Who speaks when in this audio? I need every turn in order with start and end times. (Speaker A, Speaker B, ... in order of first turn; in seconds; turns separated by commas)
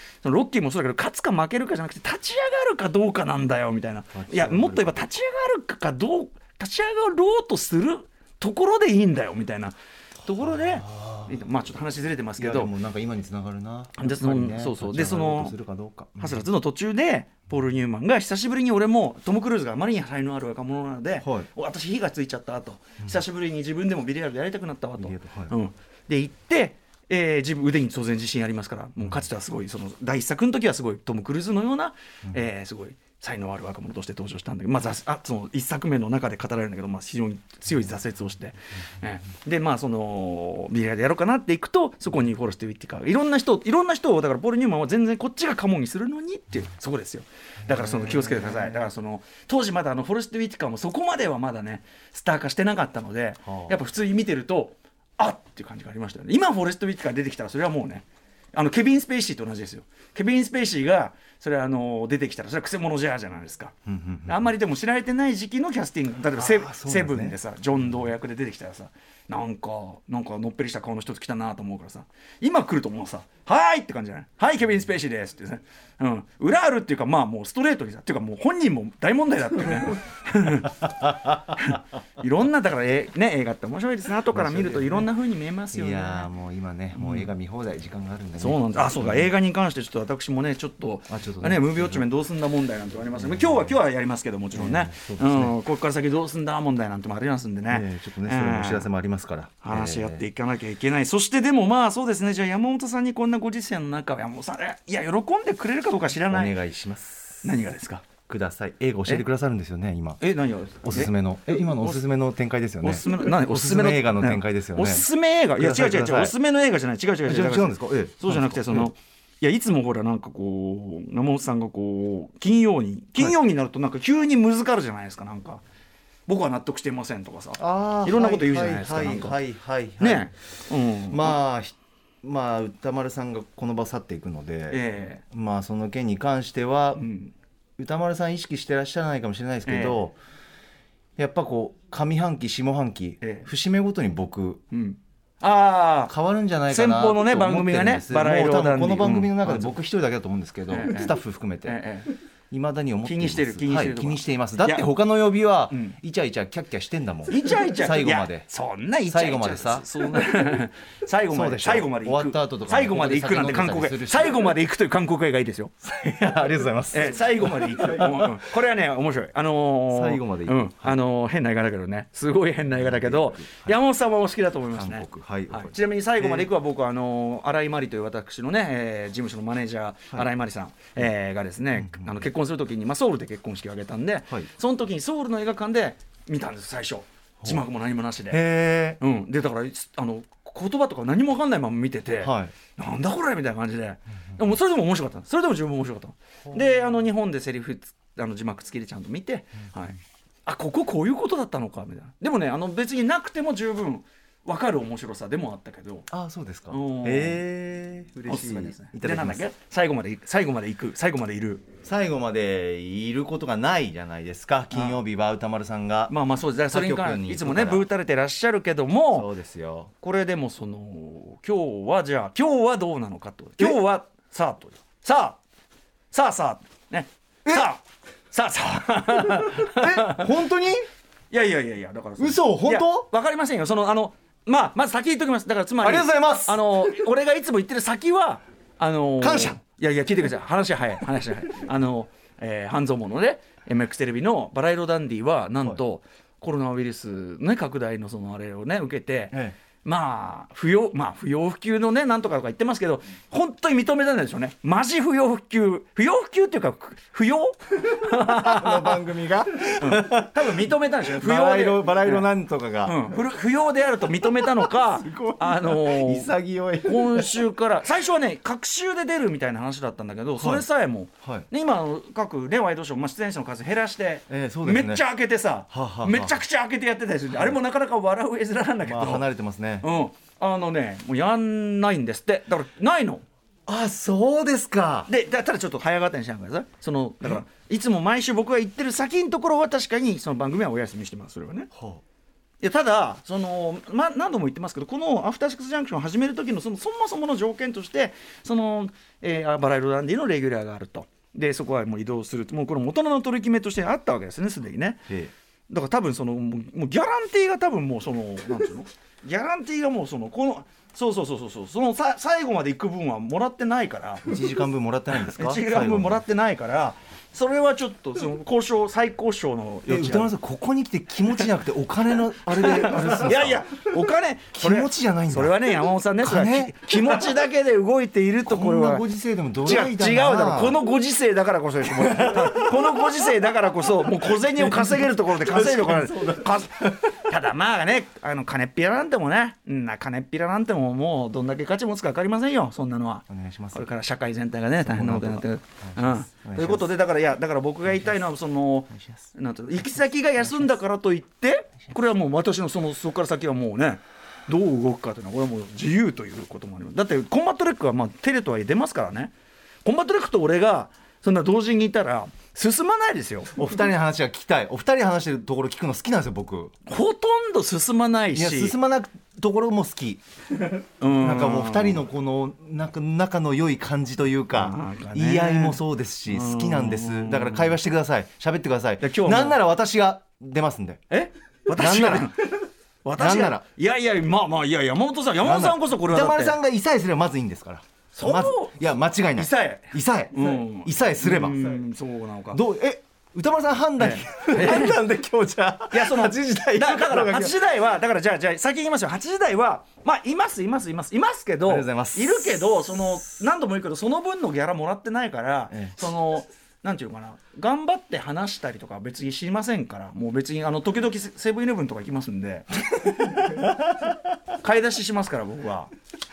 Speaker A: 0.2-12.7, Speaker B: 4.1-5.0, Speaker B: 10.5-11.4, Speaker B: 12.4-16.5, Speaker A: 14.0-15.6, Speaker A: 16.2-63.8, Speaker B: 21.2-21.5, Speaker B: 25.0-25.5, Speaker B: 47.7-48.9, Speaker B: 53.5-53.8, Speaker B: 63.9-64.5, Speaker A: 64.3-86.3, Speaker B: 66.4-67.4, Speaker B: 84.3-85.1, Speaker B: 85.7-89.3, Speaker A: 87.0-87.3, Speaker A: 88.4-98.9, Speaker B: 91.1-92.1, Speaker B: 93.1-93.8, Speaker B: 94.5-95.5, Speaker B: 97.7-100.2, Speaker A: 99.6-106.6, Speaker B: 106.3-107.6, Speaker A: 107.4-108.1, Speaker B: 108.2-110.2, Speaker A: 110.2-111.1, Speaker B: 110.8-116.3, Speaker A: 112.8-125.6, Speaker B: 117.3-118.9, Speaker A: 126.3-129.4, Speaker B: 127.6-130.3, Speaker A: 130.0-131.4, Speaker B: 131.1-137.0, Speaker A: 134.7-135.2, Speaker A: 137.0-137.3, Speaker B: 137.8-140.2, Speaker A: 139.7-140.0, Speaker B: 141.2-144.6, Speaker A: 143.2-143.5, Speaker A: 144.7-146.1, Speaker B: 146.1-151.8, Speaker A: 146.7-149.8, Speaker A: 150.7-151.1, Speaker A: 151.7-152.1, Speaker B: 152.5-158.5, Speaker A: 153.0-154.9, Speaker A: 155.7-156.0, Speaker A: 157.3-165.7, Speaker B: 159.1-160.5, Speaker B: 161.3-164.5, Speaker B: 165.8-168.4, Speaker A: 166.9-188.4, Speaker B: 169.9-171.0, Speaker B: 172.7-173.8, Speaker B: 174.8-176.5, Speaker B: 181.8-182.3, Speaker B: 187.4-187.7, Speaker B: 188.3-189.0, Speaker A: 189.0-206.1, Speaker B: 192.2-192.5, Speaker B: 196.5-196.9, Speaker B: 206.1-209.4, Speaker A: 206.7-207.4, Speaker A: 208.2-211.7, Speaker B: 211.8-216.1, Speaker A: 214.7-215.0, Speaker A: 216.1-219.3, Speaker B: 216.7-217.9, Speaker B: 219.1-219.9, Speaker A: 220.0-225.4, Speaker A: 226.1-230.3, Speaker B: 229.4-230.8, Speaker A: 231.3-259.0, Speaker B: 232.2-233.1, Speaker B: 235.8-236.9, Speaker B: 239.2-239.6, Speaker B: 258.0-263.1, Speaker A: 259.8-262.3, Speaker A: 262.9-266.3, Speaker B: 264.2-267.4, Speaker A: 266.9-279.3, Speaker B: 270.4-270.7, Speaker B: 274.3-275.0, Speaker B: 275.7-276.4, Speaker B: 278.8-279.9, Speaker A: 279.8-283.2, Speaker B: 283.7-285.1, Speaker A: 285.1-291.7, Speaker B: 291.7-292.0, Speaker A: 292.6-305.0, Speaker A: 305.7-314.3, Speaker B: 314.2-316.2, Speaker A: 315.2-320.3, Speaker B: 319.9-323.6, Speaker A: 322.5-329.0, Speaker B: 324.6-327.3, Speaker B: 328.5-330.8, Speaker A: 329.6-359.3, Speaker B: 332.1-333.3, Speaker B: 334.4-337.0, Speaker B: 343.3-343.9, Speaker B: 344.8-346.9, Speaker B: 347.9-348.2, Speaker B: 348.9-349.2, Speaker A: 359.9-363.5, Speaker B: 363.5-366.7, Speaker A: 366.9-368.8, Speaker B: 368.3-370.2, Speaker A: 371.0-372.1, Speaker B: 371.1-381.0, Speaker A: 374.5-377.8, Speaker A: 379.0-379.6, Speaker A: 381.1-386.6, Speaker B: 381.7-382.3, Speaker B: 383.2-383.6, Speaker B: 385.4-391.8, Speaker A: 388.2-388.8, Speaker A: 389.4-392.6, Speaker B: 392.5-397.6, Speaker A: 394.0-395.0, Speaker A: 395.9-413.7, Speaker B: 401.7-402.9, Speaker B: 405.7-406.0, Speaker A: 414.6-415.9